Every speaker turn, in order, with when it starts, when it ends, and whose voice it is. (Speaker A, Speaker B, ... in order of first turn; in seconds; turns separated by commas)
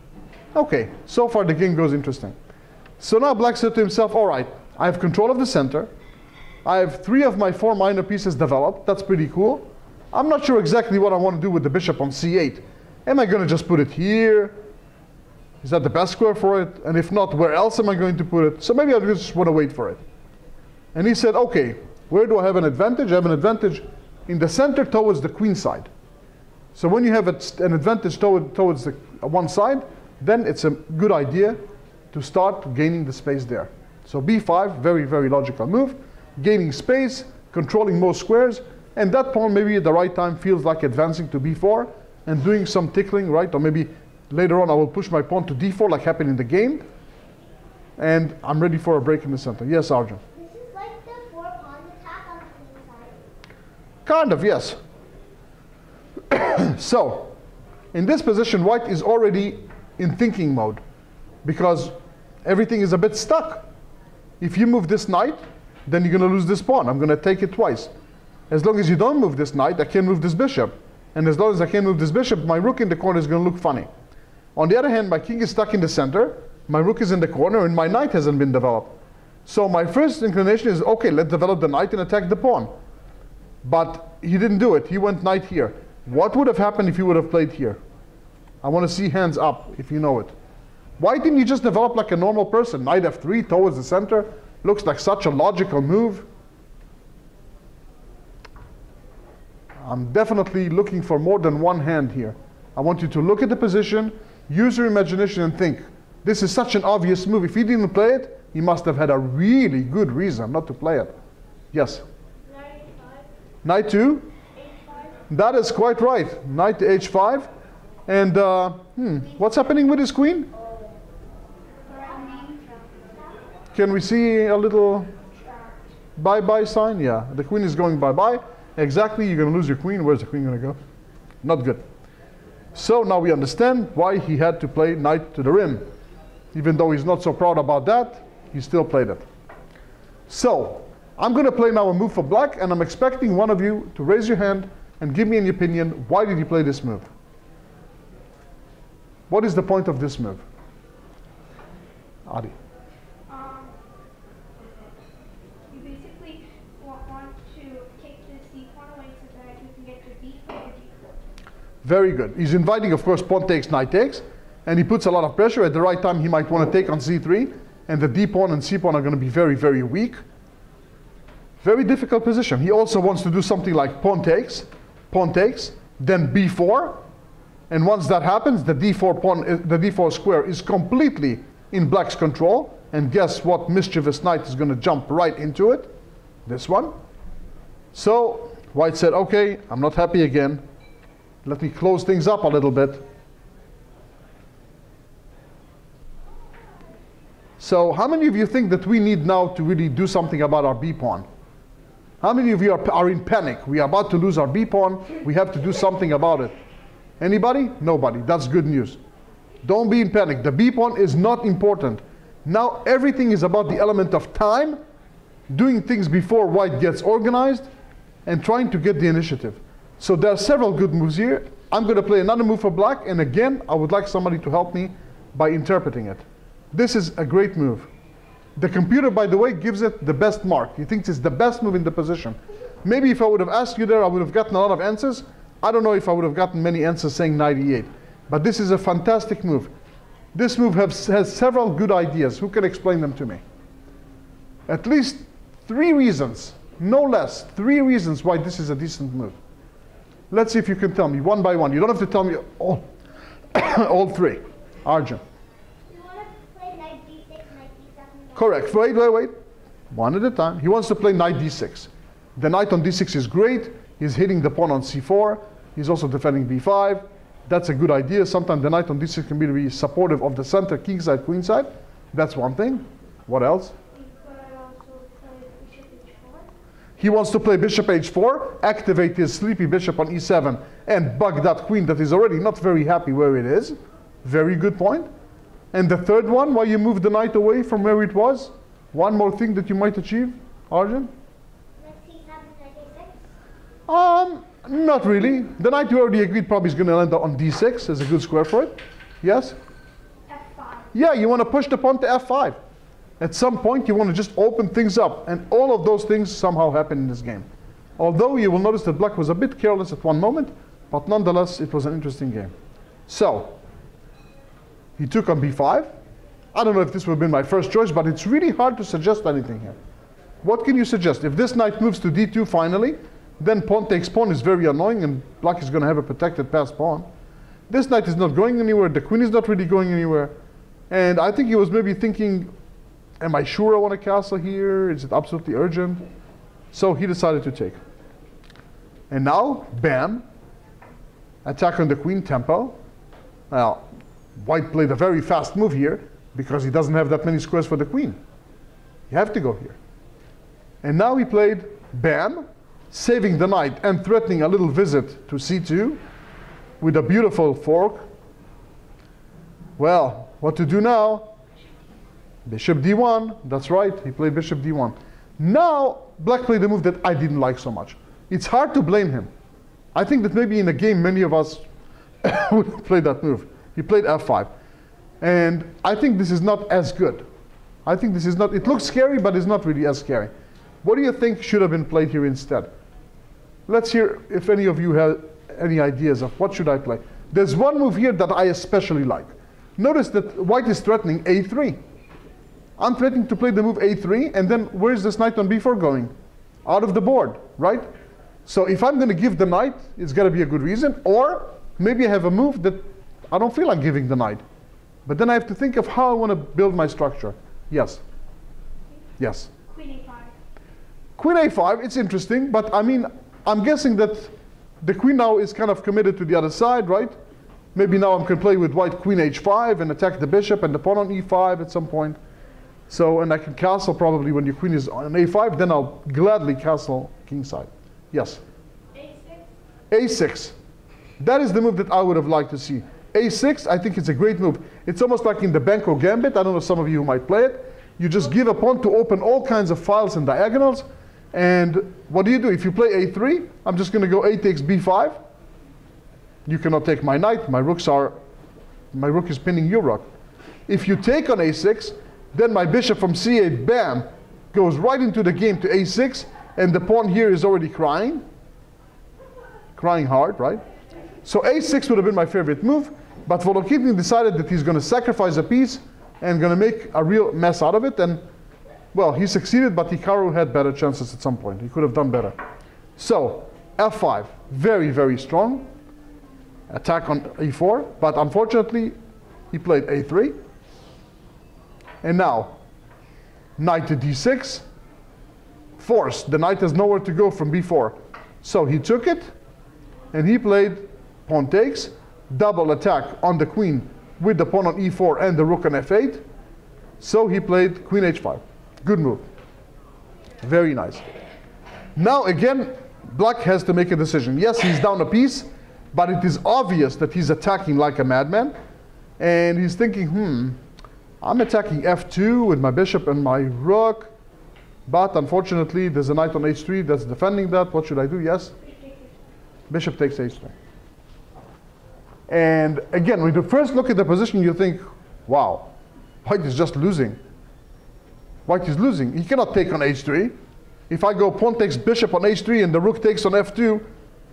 Speaker A: 0.5-2.3, Speaker A: 3.0-5.9, Speaker A: 6.6-14.6, Speaker A: 15.6-20.0, Speaker A: 20.9-25.9, Speaker A: 26.7-31.6, Speaker A: 32.1-46.8, Speaker A: 48.0-50.2, Speaker B: 50.3-53.3, Speaker A: 54.0-54.8, Speaker A: 56.3-57.3, Speaker A: 57.9-60.8, Speaker A: 61.4-63.6, Speaker A: 64.4-67.9, Speaker A: 68.5-73.9, Speaker A: 74.5-82.7, Speaker A: 83.6-87.8, Speaker A: 88.6-90.3, Speaker A: 91.0-96.3, Speaker A: 99.8-111.1, Speaker A: 111.7-112.0, Speaker B: 112.5-113.2, Speaker A: 113.6-114.3, Speaker B: 114.5-115.2, Speaker A: 115.3-117.5, Speaker A: 118.1-120.5, Speaker C: 121.8-123.1, Speaker B: 122.1-122.6, Speaker A: 123.7-125.1, Speaker C: 125.5-125.8, Speaker A: 126.2-130.8, Speaker A: 131.4-131.8, Speaker A: 132.7-135.8, Speaker A: 136.5-139.2, Speaker A: 140.3-147.1, Speaker A: 149.3-150.4, Speaker A: 152.3-152.5, Speaker C: 153.3-153.8, Speaker C: 155.7-161.0, Speaker A: 161.8-170.2, Speaker A: 171.6-177.0, Speaker A: 177.7-185.9, Speaker A: 186.4-186.9, Speaker A: 187.9-190.6, Speaker A: 191.4-193.0, Speaker A: 197.6-201.2, Speaker A: 202.2-206.5, Speaker A: 207.2-209.0, Speaker A: 209.6-214.8, Speaker A: 215.5-217.7, Speaker A: 218.2-227.9, Speaker A: 228.6-239.7, Speaker A: 240.3-243.4, Speaker A: 244.7-249.4, Speaker A: 250.3-252.8, Speaker A: 253.5-255.2, Speaker B: 255.9-258.8, Speaker A: 258.4-259.3, Speaker A: 259.9-273.7, Speaker C: 273.9-276.4, Speaker A: 277.0-285.1, Speaker A: 285.7-291.1, Speaker B: 291.8-293.2, Speaker A: 293.9-299.6, Speaker C: 300.3-300.9, Speaker A: 300.9-302.6, Speaker A: 303.2-307.5, Speaker A: 308.0-312.5, Speaker A: 313.1-313.6, Speaker A: 315.0-315.9, Speaker A: 316.5-319.8, Speaker A: 320.4-327.1, Speaker A: 327.7-330.3, Speaker A: 330.9-332.5, Speaker A: 333.2-336.0, Speaker A: 336.7-337.8, Speaker A: 339.1-340.2, Speaker A: 341.4-342.8, Speaker A: 343.5-343.8, Speaker A: 344.4-348.2, Speaker A: 349.1-349.8, Speaker A: 350.8-356.0, Speaker A: 356.8-358.1, Speaker A: 359.8-361.3, Speaker A: 362.4-369.3, Speaker A: 369.9-371.6, Speaker A: 372.2-374.5, Speaker A: 375.2-377.2, Speaker A: 377.8-380.3, Speaker A: 380.8-382.7, Speaker A: 383.7-391.8, Speaker A: 392.8-396.1, Speaker A: 396.6-397.9, Speaker A: 398.4-404.4, Speaker A: 405.1-408.0, Speaker A: 409.2-409.5, Speaker C: 409.7-410.3, Speaker A: 411.2-417.1, Speaker A: 417.7-422.2, Speaker A: 422.9-428.4, Speaker C: 428.9-429.5, Speaker A: 429.9-430.5, Speaker A: 431.2-445.2, Speaker A: 446.4-448.1, Speaker A: 448.9-450.1, Speaker A: 450.7-458.2, Speaker A: 459.7-460.6, Speaker A: 461.2-468.2, Speaker A: 468.9-472.4, Speaker A: 473.0-475.7, Speaker A: 476.7-478.9, Speaker A: 479.5-480.4, Speaker A: 482.0-482.5, Speaker A: 483.6-484.6, Speaker A: 485.8-489.3, Speaker A: 490.1-496.2, Speaker A: 497.0-499.3, Speaker A: 500.4-501.0, Speaker A: 501.9-508.5, Speaker A: 509.2-510.6, Speaker A: 511.2-514.1, Speaker A: 514.9-518.5, Speaker C: 518.6-519.1, Speaker A: 519.7-520.5, Speaker A: 522.3-525.7, Speaker A: 526.2-527.2, Speaker A: 528.5-530.3, Speaker A: 530.9-533.9